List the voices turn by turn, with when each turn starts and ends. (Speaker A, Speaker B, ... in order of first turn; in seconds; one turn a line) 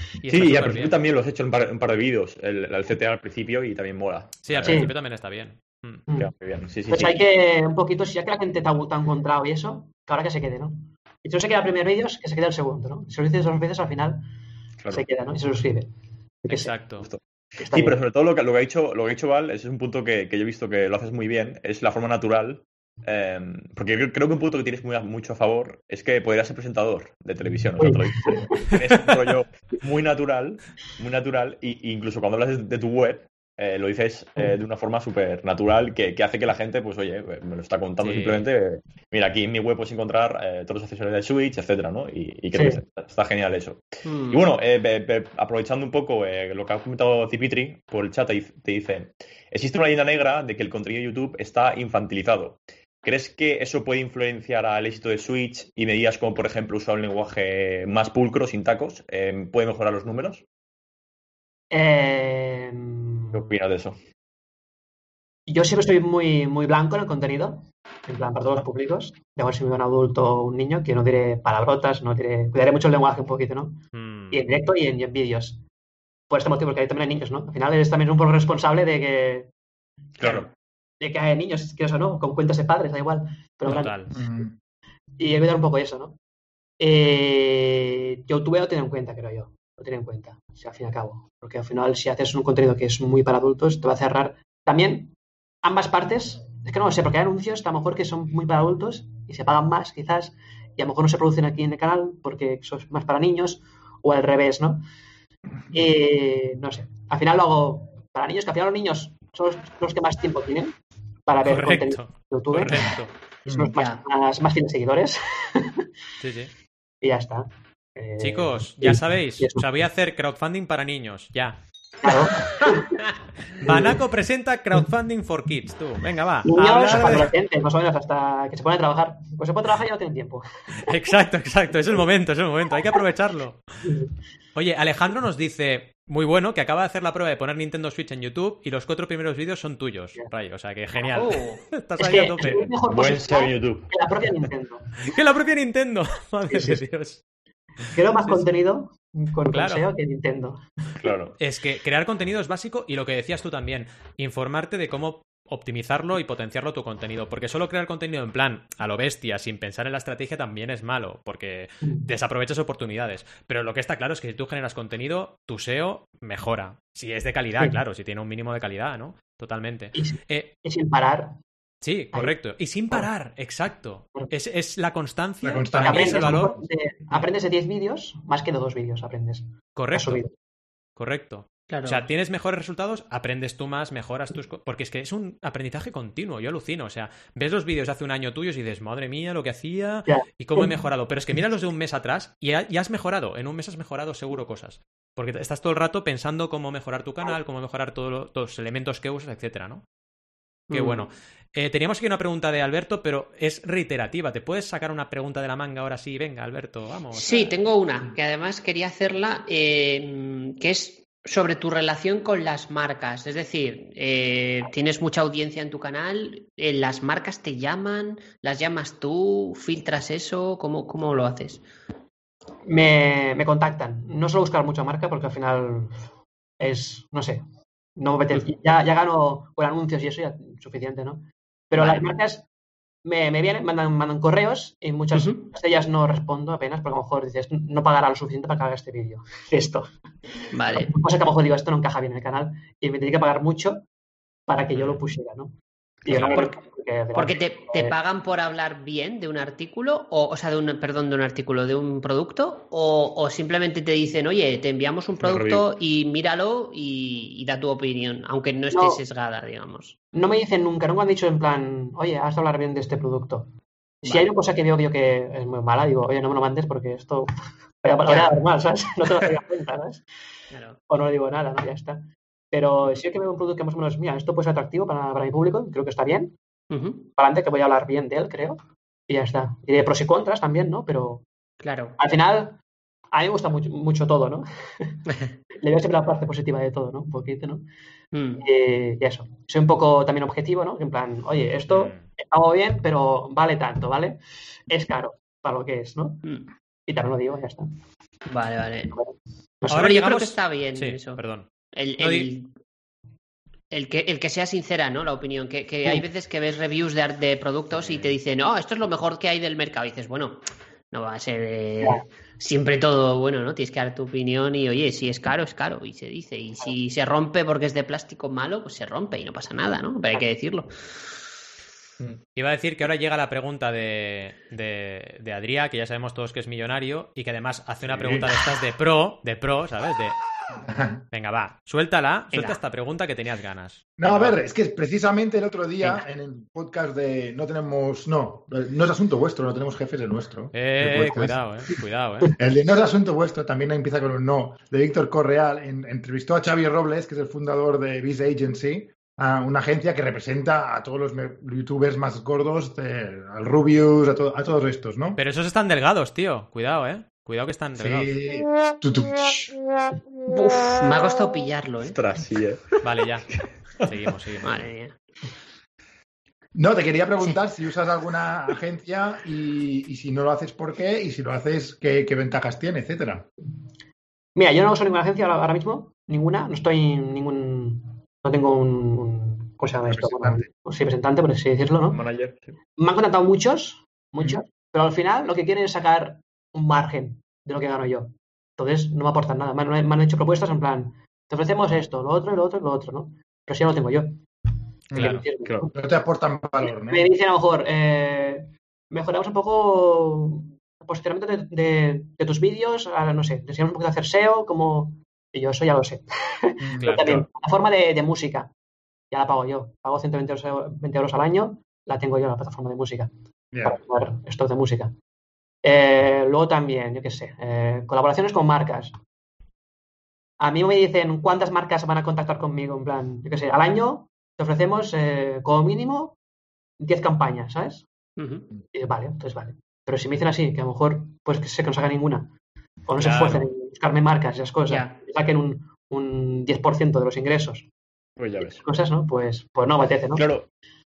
Speaker A: 0.2-1.0
Speaker B: 0.3-4.9
Speaker A: 4.4-6.0
Speaker C: 4.7-4.9
Speaker B: 6.1-7.2
Speaker C: 6.9-14.2
Speaker B: 14.8-15.0
Speaker C: 14.9-15.9
Speaker C: 16.4-16.7
Speaker A: 16.5-17.1
Speaker B: 17.0-60.4
Speaker C: 17.6-18.0
Speaker C: 27.8-28.8
Speaker A: 38.0-38.5
Speaker C: 42.5-42.8
Speaker D: 44.0-44.4
Speaker C: 61.7-63.5
Speaker B: 63.3-64.0
Speaker C: 65.5-75.6
Speaker A: 73.9-74.4
Speaker C: 76.3-79.5
Speaker B: 80.2-80.5
Speaker C: 80.2-80.5
Speaker C: 81.0-84.3
Speaker A: 83.7-84.1
Speaker E: 84.1-84.5
Speaker C: 85.2-86.2
Speaker C: 86.8-104.8
Speaker C: 105.7-115.8
Speaker A: 111.4-113.1
Speaker E: 113.5-113.7
Speaker D: 113.7-114.0
Speaker A: 116.2-116.5
Speaker C: 117.0-119.7
Speaker A: 118.2-121.6
Speaker C: 122.0-124.0
Speaker A: 123.6-127.3
Speaker C: 126.5-130.9
Speaker A: 130.8-133.6
Speaker A: 134.5-142.7
Speaker D: 141.1-141.7
Speaker C: 142.0-144.9
Speaker B: 142.5-143.9
Speaker A: 145.0-147.2
Speaker C: 146.5-146.8
Speaker C: 147.9-150.9
Speaker A: 149.5-149.9
Speaker B: 151.0-151.3
Speaker A: 151.4-170.5
Speaker C: 169.9-171.4
Speaker A: 171.8-176.6
Speaker E: 175.4-176.5
Speaker C: 175.8-180.3
Speaker A: 179.8-180.2
Speaker A: 181.0-199.8
Speaker D: 181.7-182.1
Speaker C: 190.1-190.7
Speaker D: 200.7-201.0
Speaker A: 200.7-207.5
Speaker D: 207.1-221.6
Speaker C: 222.7-226.0
Speaker C: 226.6-227.4
Speaker C: 228.0-232.4
Speaker D: 231.8-232.0
Speaker C: 233.0-239.9
Speaker D: 235.1-235.4
Speaker D: 240.5-240.9
Speaker C: 240.7-243.8
Speaker C: 244.5-245.5
Speaker C: 246.0-247.9
Speaker D: 246.1-246.5
Speaker D: 247.1-259.9
Speaker B: 255.2-255.7
Speaker C: 258.7-259.0
Speaker C: 260.1-263.5
Speaker C: 264.0-267.3
Speaker C: 267.8-270.0
Speaker D: 268.1-268.3
Speaker D: 270.5-270.8
Speaker C: 270.9-276.3
Speaker D: 276.7-277.1
Speaker C: 277.2-281.2
Speaker D: 281.6-282.0
Speaker C: 282.0-282.6
Speaker C: 283.1-285.0
Speaker C: 285.6-287.6
Speaker D: 288.1-288.4
Speaker C: 288.4-296.2
Speaker A: 291.7-292.1
Speaker C: 296.9-297.6
Speaker D: 298.3-298.9
Speaker C: 298.9-299.9
Speaker A: 299.7-302.3
Speaker D: 299.7-301.2
Speaker D: 301.7-302.5
Speaker D: 303.7-321.2
Speaker A: 322.3-330.1
Speaker E: 327.9-328.3
Speaker E: 330.5-331.0
Speaker A: 331.1-334.4
Speaker E: 334.0-341.4
Speaker A: 340.5-342.3
Speaker E: 342.4-355.2
Speaker A: 355.2-358.1
Speaker E: 357.8-359.5
Speaker D: 360.3-362.0
Speaker B: 361.8-363.9
Speaker A: 362.8-363.3
Speaker A: 363.8-364.7
Speaker D: 364.4-364.9
Speaker E: 366.5-373.3
Speaker C: 374.4-382.0
Speaker E: 379.9-380.5
Speaker B: 381.9-382.5
Speaker C: 382.8-394.2
Speaker E: 394.9-395.2
Speaker A: 394.9-395.2
Speaker C: 395.0-395.8
Speaker E: 395.7-397.1
Speaker C: 396.7-408.5
Speaker E: 406.6-407.2
Speaker C: 409.1-413.1
Speaker E: 413.5-413.8
Speaker C: 413.6-414.9
Speaker C: 415.6-418.9
Speaker C: 420.4-426.1
Speaker C: 426.8-427.9
Speaker D: 428.2-428.5
Speaker C: 428.7-432.3
Speaker C: 432.9-437.7
Speaker A: 433.0-433.5
Speaker D: 434.7-435.0
Speaker B: 438.2-438.6
Speaker C: 438.4-440.2
Speaker B: 440.1-440.5